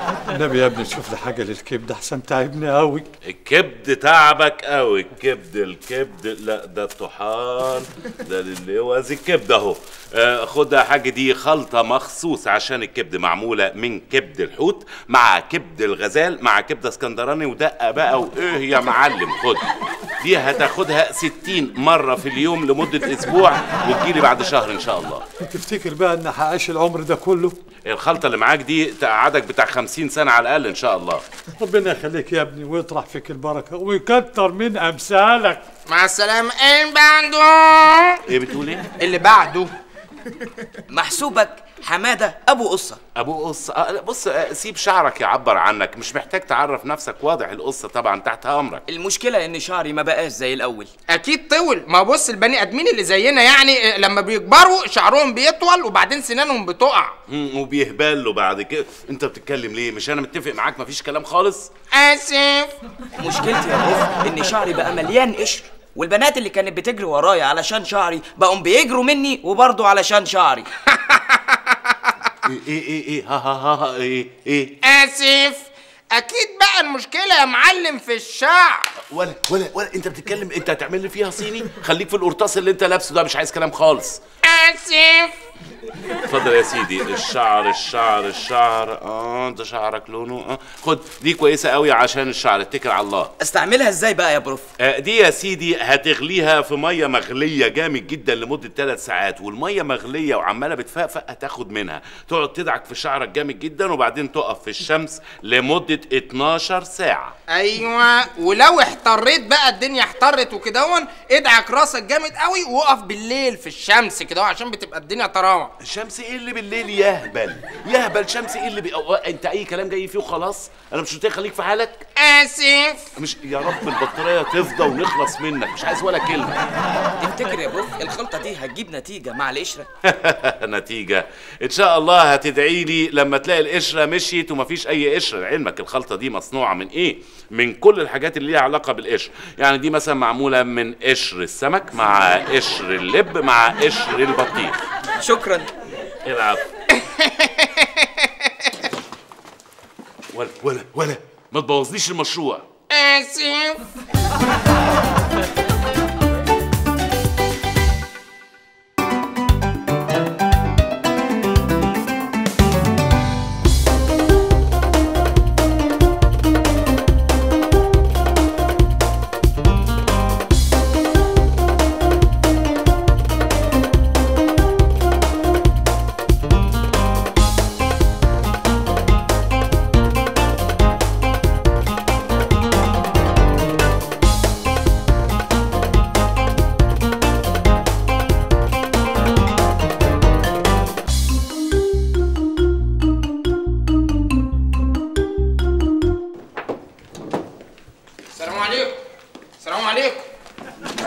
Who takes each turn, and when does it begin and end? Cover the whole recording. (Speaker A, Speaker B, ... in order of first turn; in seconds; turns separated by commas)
Speaker A: 0.3-3.1, Speaker B: 3.2-19.7, Speaker B: 20.2-25.2, Speaker A: 25.5-27.6, Speaker B: 27.9-31.2, Speaker A: 31.6-35.6, Speaker C: 35.9-38.2, Speaker B: 38.3-38.9, Speaker C: 39.0-39.7, Speaker D: 40.9-43.0, Speaker B: 43.2-48.8, Speaker D: 48.9-50.9, Speaker C: 51.1-57.1, Speaker B: 57.3-61.7, Speaker C: 61.9-62.7, Speaker D: 63.2-70.7, Speaker C: 70.9-71.8, Speaker B: 72.5-74.7, Speaker C: 74.8-78.8, Speaker B: 79.1-84.2, Speaker C: 84.4-85.3, Speaker B: 86.3-93.3, Speaker D: 93.4-94.7, Speaker B: 94.8-107.3, Speaker C: 107.5-115.7, Speaker B: 115.8-122.0, Speaker C: 122.2-123.0, Speaker B: 123.2-126.6, Speaker D: 127.2-129.9, Speaker B: 130.1-144.8, Speaker D: 145.2-145.7, Speaker B: 146.2-146.6, Speaker C: 147.2-148.3, Speaker B: 150.3-152.7, Speaker C: 152.9-153.8, Speaker C: 198.3-199.0, Speaker C: 199.6-200.3